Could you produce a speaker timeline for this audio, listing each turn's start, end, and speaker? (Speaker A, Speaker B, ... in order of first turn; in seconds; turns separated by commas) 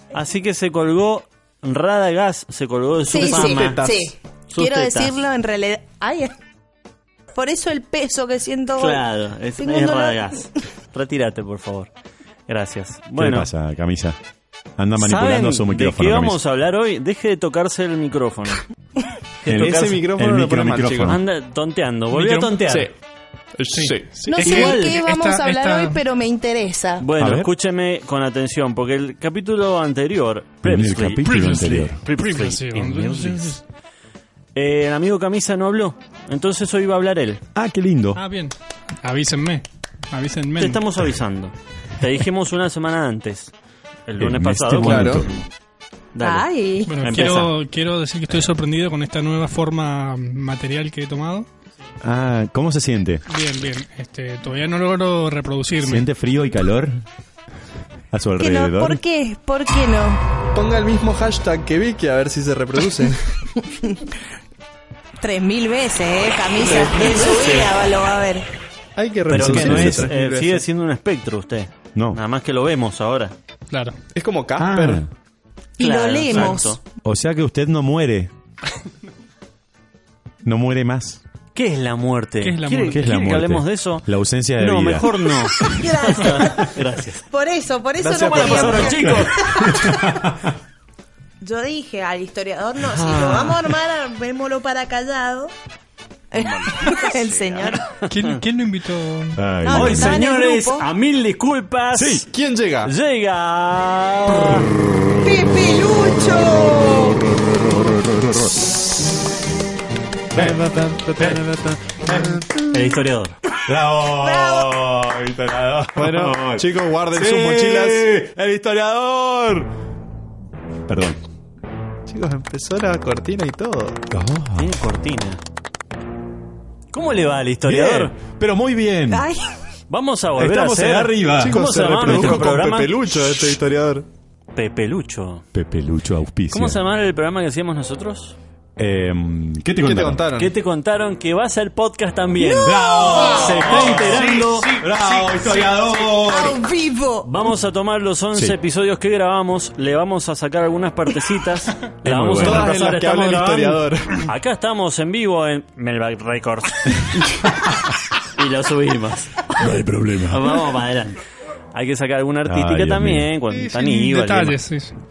Speaker A: 0.1-3.9, Speaker B: 3.1-4.1, Speaker C: 3.1-6.3, Speaker A: 4.5-5.1, Speaker C: 7.3-9.0, Speaker A: 8.8-11.9, Speaker C: 9.6-10.4, Speaker A: 12.5-13.5, Speaker D: 13.2-14.2, Speaker D: 14.8-16.4, Speaker A: 15.0-18.6, Speaker A: 19.4-20.0, Speaker D: 19.4-21.2, Speaker B: 19.5-21.2, Speaker A: 21.0-22.9, Speaker E: 22.1-22.6, Speaker B: 22.6-22.9, Speaker B: 23.6-24.1, Speaker E: 23.7-26.0, Speaker C: 24.3-27.0, Speaker A: 24.4-25.0, Speaker A: 27.0-33.6, Speaker D: 27.2-27.5, Speaker D: 30.6-32.0, Speaker E: 31.2-33.6, Speaker A: 34.5-37.4, Speaker D: 37.5-38.2, Speaker E: 38.1-40.8, Speaker A: 40.6-43.5, Speaker A: 44.1-45.3, Speaker D: 44.2-45.3, Speaker B: 44.8-45.2, Speaker A: 46.1-46.5, Speaker C: 46.2-47.0, Speaker E: 46.9-51.5, Speaker A: 47.0-47.5, Speaker D: 52.0-53.2, Speaker E: 53.3-56.0, Speaker D: 55.8-56.9, Speaker D: 58.1-59.0, Speaker C: 58.4-60.2, Speaker B: 60.5-63.2, Speaker C: 63.5-64.1, Speaker C: 65.2-68.5, Speaker B: 66.6-67.7, Speaker B: 69.0-70.6, Speaker A: 69.3-73.3, Speaker D: 69.3-70.1, Speaker E: 73.7-74.0, Speaker B: 74.1-75.0, Speaker D: 74.5-75.1, Speaker A: 75.8-76.8, Speaker C: 75.8-76.8, Speaker D: 76.3-78.3, Speaker D: 80.4-81.2, Speaker A: 81.5-87.2, Speaker E: 82.4-83.0, Speaker D: 82.9-85.1, Speaker C: 85.6-86.8, Speaker C: 87.3-90.1, Speaker B: 88.0-89.2, Speaker A: 88.3-89.4, Speaker D: 89.0-90.5, Speaker C: 91.4-95.5, Speaker A: 92.8-93.6, Speaker C: 96.3-97.8, Speaker A: 96.6-98.4, Speaker E: 98.1-99.4, Speaker D: 99.3-100.2, Speaker C: 99.6-100.9, Speaker A: 99.7-102.2, Speaker D: 101.9-102.2, Speaker B: 102.3-102.9, Speaker A: 102.8-104.7, Speaker C: 105.2-107.2, Speaker D: 107.2-108.5, Speaker D: 110.3-110.6, Speaker B: 110.3-112.5, Speaker D: 111.2-111.4, Speaker D: 112.0-112.6, Speaker A: 112.7-113.3, Speaker D: 113.6-119.7, Speaker C: 114.2-114.8, Speaker B: 116.0-118.0, Speaker D: 120.9-121.2, Speaker B: 122.1-124.0, Speaker D: 124.1-124.7, Speaker A: 124.6-125.4, Speaker A: 126.9-128.1, Speaker D: 127.6-129.3, Speaker C: 129.1-129.5, Speaker A: 129.9-132.9, Speaker D: 130.3-132.5, Speaker B: 131.4-134.1, Speaker A: 134.5-135.4, Speaker D: 135.5-136.8, Speaker A: 136.5-138.3, Speaker D: 138.8-140.2, Speaker B: 139.8-140.5, Speaker A: 140.3-144.8, Speaker C: 142.4-143.4, Speaker D: 142.6-146.6, Speaker E: 143.8-144.7, Speaker C: 146.1-147.3, Speaker A: 147.2-157.2, Speaker D: 152.0-153.0, Speaker B: 152.4-154.3, Speaker A: 158.3-159.5, Speaker D: 159.6-160.6, Speaker A: 160.3-161.2, Speaker A: 161.7-164.6, Speaker D: 162.4-163.3, Speaker E: 163.5-164.9